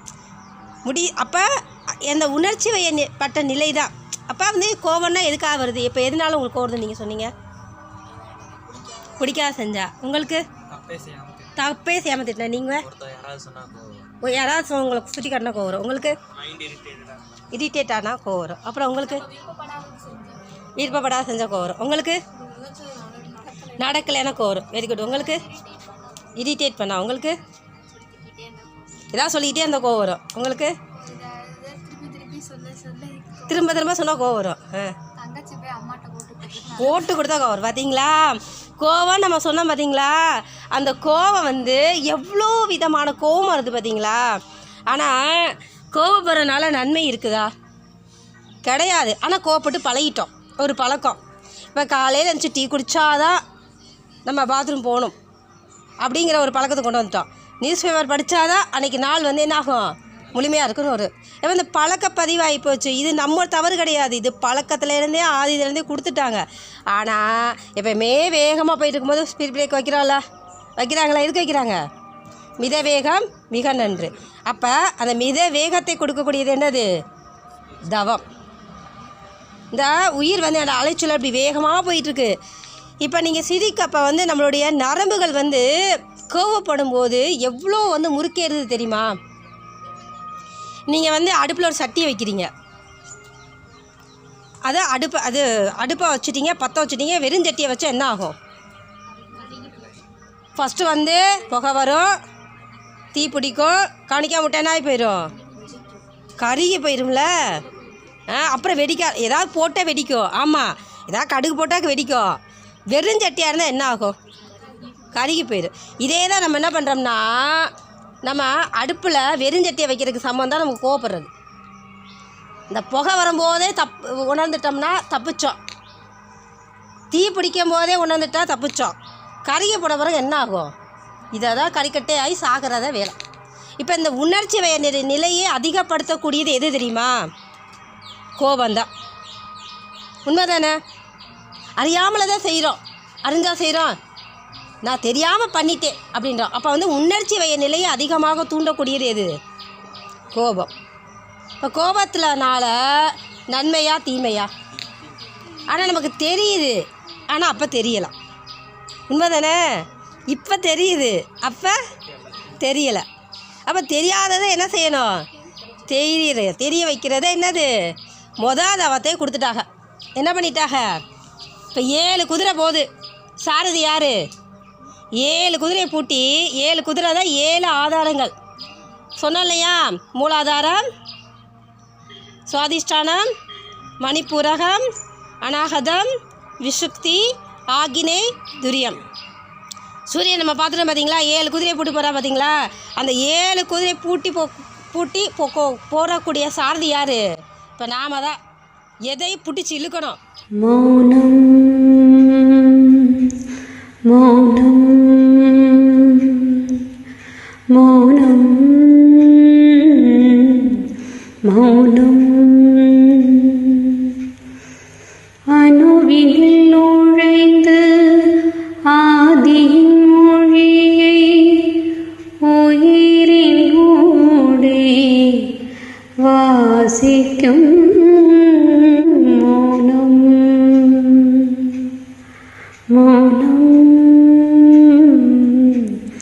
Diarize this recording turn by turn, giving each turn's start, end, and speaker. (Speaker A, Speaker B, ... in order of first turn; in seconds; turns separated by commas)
Speaker A: 0.8-7.3, Speaker B: 8.1-9.4, Speaker A: 9.2-10.5, Speaker C: 10.7-11.6, Speaker A: 11.6-12.9, Speaker C: 12.8-14.1, Speaker A: 14.2-16.2, Speaker C: 16.3-17.2, Speaker A: 17.5-19.2, Speaker B: 19.0-20.6, Speaker A: 20.8-22.2, Speaker B: 22.3-24.0, Speaker A: 23.8-25.4, Speaker B: 25.0-26.5, Speaker A: 26.4-27.4, Speaker B: 27.7-29.1, Speaker A: 29.1-30.7, Speaker B: 30.9-33.8, Speaker A: 33.5-35.0, Speaker B: 35.2-37.2, Speaker A: 36.7-47.5, Speaker A: 48.6-51.2, Speaker A: 51.7-53.4, Speaker A: 54.3-55.1, Speaker A: 56.0-70.2, Speaker A: 70.8-71.8, Speaker A: 72.6-76.9, Speaker A: 77.8-78.3, Speaker A: 79.7-82.4, Speaker A: 83.0-89.2, Speaker A: 90.9-92.5, Speaker A: 94.7-98.4, Speaker B: 99.1-100.0, Speaker A: 100.6-102.1, Speaker A: 103.1-105.3, Speaker B: 105.5-106.0, Speaker A: 106.4-107.5, Speaker B: 107.6-108.2, Speaker A: 108.3-112.4, Speaker A: 112.9-114.2, Speaker B: 114.5-115.2, Speaker A: 115.1-117.7, Speaker A: 118.2-121.3, Speaker A: 122.7-125.6, Speaker A: 127.1-130.7, Speaker A: 131.3-133.2, Speaker A: 133.8-137.2, Speaker A: 138.4-138.9, Speaker A: 140.3-140.8, Speaker A: 141.8-144.0, Speaker A: 144.8-149.3, Speaker A: 150.3-150.7, Speaker A: 151.6-154.5, Speaker A: 155.7-158.1, Speaker A: 159.1-161.8, Speaker A: 162.4-163.1, Speaker A: 163.7-165.3, Speaker A: 165.9-171.0, Speaker A: 171.7-172.9, Speaker A: 173.4-174.2, Speaker A: 175.2-178.3, Speaker A: 179.2-180.8, Speaker A: 182.5-183.3, Speaker A: 184.0-184.9, Speaker A: 185.4-189.0, Speaker A: 190.1-198.4, Speaker A: 199.1-200.2, Speaker D: 200.6-203.3, Speaker D: 204.1-206.8, Speaker D: 207.7-210.8, Speaker D: 211.4-214.2, Speaker D: 215.5-221.9, Speaker D: 222.4-225.6, Speaker D: 226.2-231.9, Speaker D: 232.9-236.0